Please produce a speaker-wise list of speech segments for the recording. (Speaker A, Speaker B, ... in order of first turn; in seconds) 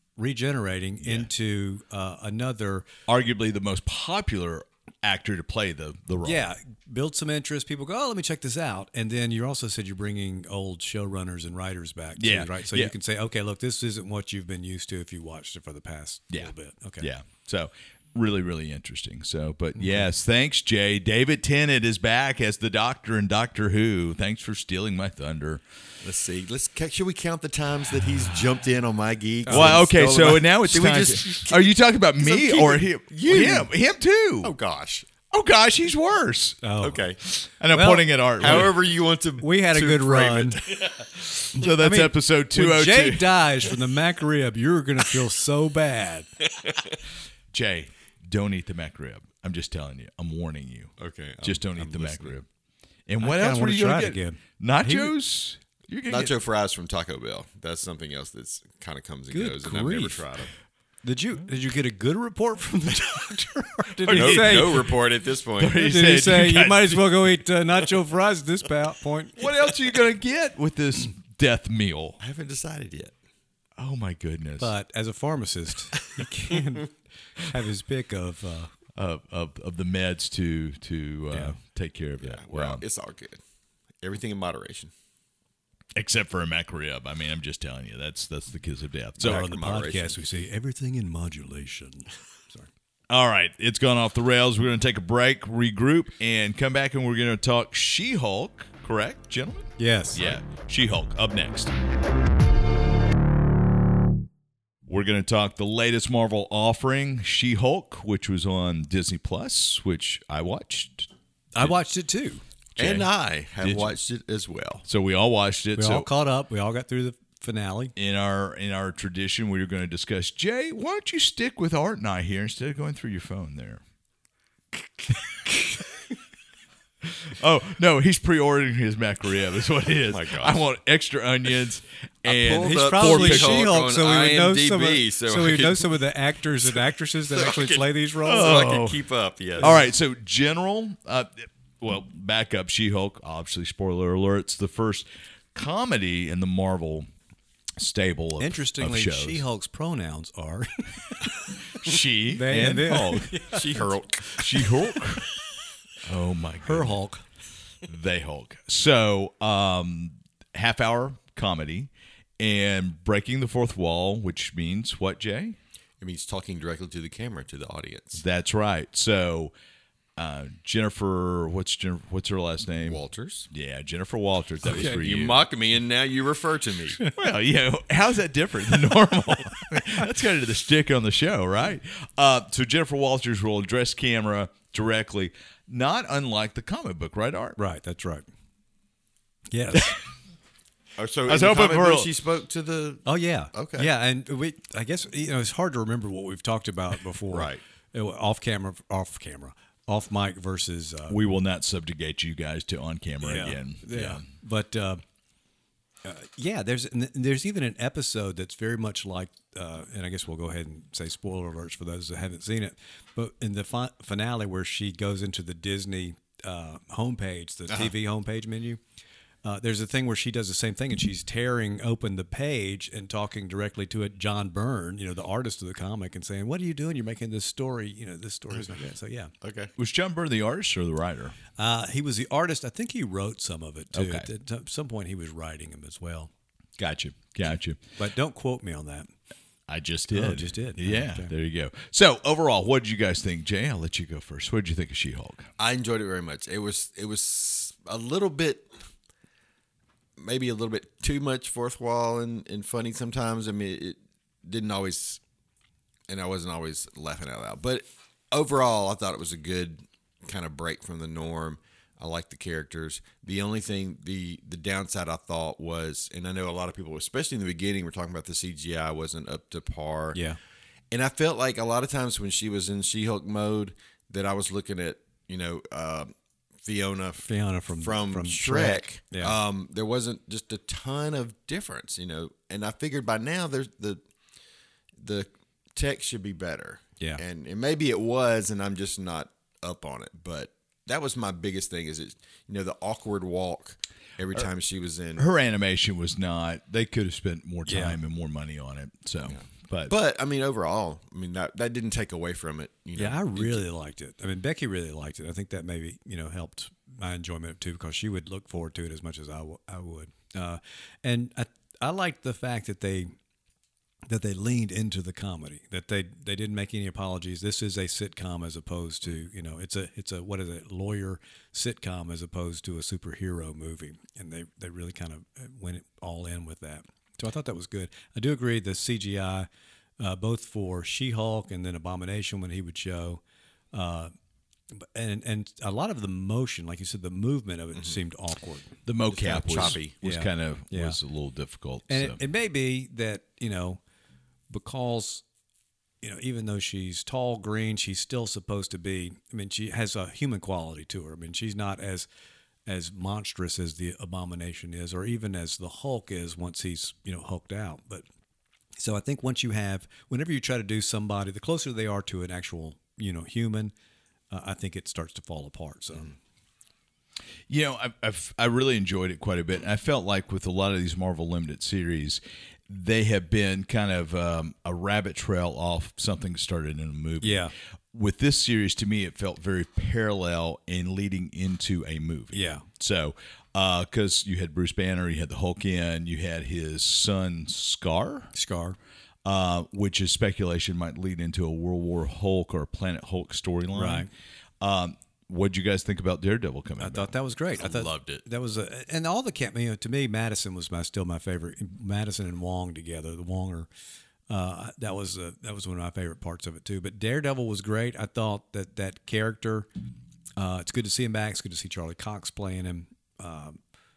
Speaker A: 0.2-2.9, 6.2-17.1, 19.8-20.1, 29.5-29.8, 36.6-37.0, 37.7-38.6, 39.4-40.6, 41.6-46.3, 53.2-55.1, 59.3-60.3, 61.0-65.0, 65.7-69.4, 74.6-78.7, 89.2-92.7, 99.8-100.4, 111.5-112.4, 115.8-117.9, 132.6-138.6, 148.4-151.6, 152.3-155.2, 156.6-157.2, 174.7-175.0, 187.6-188.2, 189.5-190.0, 193.1-201.2, 203.2-205.0, 206.0-218.8, 219.4-229.3, 231.6-236.3, 238.0-239.1, 240.1-241.3, 277.3-279.4, 297.7-298.0, 303.0-313.1, 314.1-329.5, 330.0-333.2, 333.7-334.1, 334.7-338.7, 340.0-341.0, 341.9-343.8, 344.5-345.2, 346.0-352.1, 352.7-358.1, 358.8-363.7, 364.3-366.1, 377.2-377.5, 382.3-382.7, 388.3-388.8, 393.7-394.1, 396.8-403.7, 404.3-409.7, 410.4-413.6
Speaker B: 1.0-1.3, 3.1-6.5, 12.2-12.9, 16.3-25.6, 29.5-34.5, 35.3-36.6, 37.2-38.8, 41.5-43.6, 47.5-52.5, 53.1-56.3, 64.0-64.9, 65.6-67.2, 69.4-72.2, 73.8-74.7, 79.0-82.8, 86.0-89.5, 93.1-101.7, 104.9-111.7, 112.8-114.0, 114.9-116.1, 118.0-123.8, 127.0-133.8, 138.2-139.0, 139.6-147.1, 147.8-149.4, 151.8-153.6, 154.4-155.3, 156.0-157.0, 157.8-165.6, 168.2-169.5, 170.2-175.5, 177.1-187.6, 191.3-192.1, 201.1-204.2, 229.8-231.4, 233.9-234.3, 236.8-237.8, 239.7-245.5, 295.2-299.9, 338.9-342.2, 367.5-388.3, 389.2-394.1, 394.6-397.1
Speaker C: 26.0-33.7, 34.4-35.1, 36.8-37.2, 38.4-41.3, 46.5-47.0, 51.0-52.4, 56.1-60.5, 64.1-65.8, 72.2-73.1, 82.2-83.4, 84.0-84.9, 89.2-90.2, 112.8-114.8, 130.1-130.6, 132.2-136.1, 136.7-139.8, 153.5-154.6, 166.0-168.2, 172.8-173.5, 174.7-177.0, 191.0-193.9, 197.3-197.6, 228.5-228.8, 229.4-229.7, 245.6-248.7, 250.2-255.2, 256.1-270.2, 270.9-276.1, 276.6-284.0, 285.0-295.3, 299.2-303.6, 339.1-339.9, 397.6-398.2